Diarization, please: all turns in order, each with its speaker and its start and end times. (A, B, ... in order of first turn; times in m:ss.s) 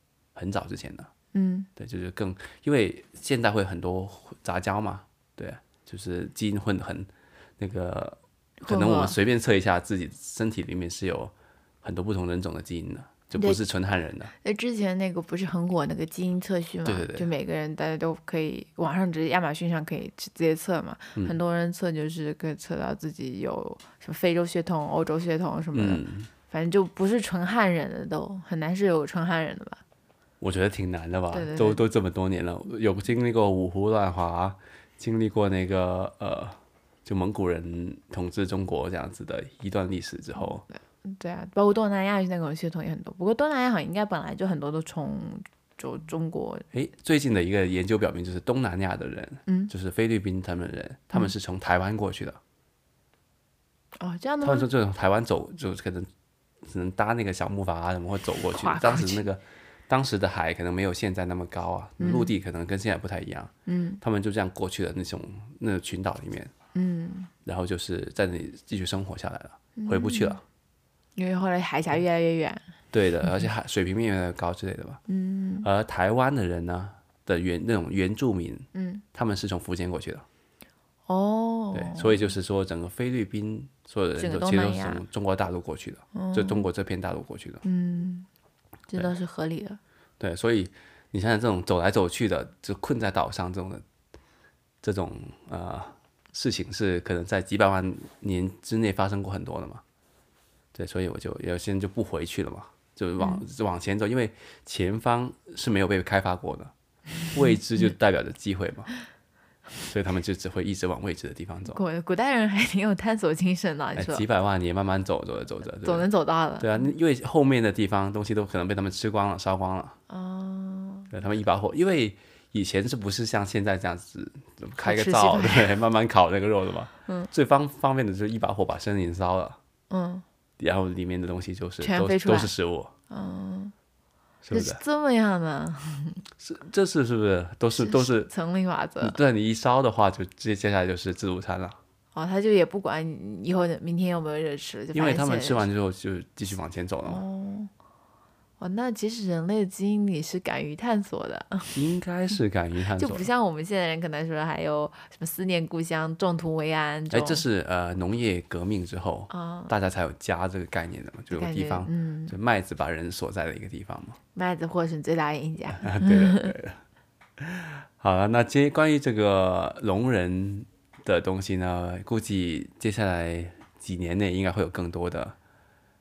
0:00.3-0:01.1 A
0:01.3-0:01.7 B
0:01.8-0:14.3 A
0:08.6-0:09.2 B
0:13.3-0:13.6 B
0:14.4-0:29.8 B
0:16.8-0:17.3 A
0:25.7-0:26.3 A
0:30.4-0:40.6 A
0:31.3-0:31.8 B
0:41.0-0:46.6 B
0:46.7-0:52.4 A
0:49.5-0:49.7 B
0:54.0-0:54.7 B
0:54.4-0:56.1 A
0:56.6-1:06.5 A
0:58.4-0:59.2 B
1:02.0-1:02.3 B
1:03.6-1:04.0 B
1:06.7-1:07.3 B
1:07.4-1:10.4 A
1:09.8-1:10.4 B
1:11.1-1:12.6 B
1:12.9-1:15.0 A
1:15.1-1:15.7 B
1:15.6-1:20.2 A
1:18.7-1:19.0 B
1:21.1-1:22.3 B
1:21.7-1:27.6 A
1:24.2-1:25.0 B
1:26.1-1:26.7 B
1:27.6-1:28.3 B
1:28.9-1:29.8 B
1:30.2-1:33.8 A
1:34.8-1:39.8 A
1:40.7-1:46.7 A
1:47.3-1:48.9 A
1:49.8-1:51.8 A
1:51.7-1:54.2 B
1:53.9-1:56.1 A
1:55.8-1:56.7 B
1:56.6-2:00.0 A
2:00.1-2:01.1 B
2:01.1-2:09.6 A
2:04.8-2:05.7 B
2:09.9-2:10.2 B
2:10.6-2:12.9 A
2:11.8-2:12.5 B
2:13.1-2:13.7 B
2:14.4-2:14.8 A
2:14.5-2:16.2 B
2:16.4-2:18.3 A
2:17.8-2:19.2 B
2:19.0-2:21.8 A
2:22.1-2:25.6 B
2:24.9-2:27.2 A
2:27.0-2:27.7 B
2:28.6-2:31.8 B
2:31.7-2:33.3 A
2:33.0-2:37.4 B
2:37.1-2:44.2 A
2:39.3-2:39.7 B
2:41.3-2:42.3 B
2:44.3-2:46.5 B
2:45.7-2:46.8 A
2:47.4-2:55.4 A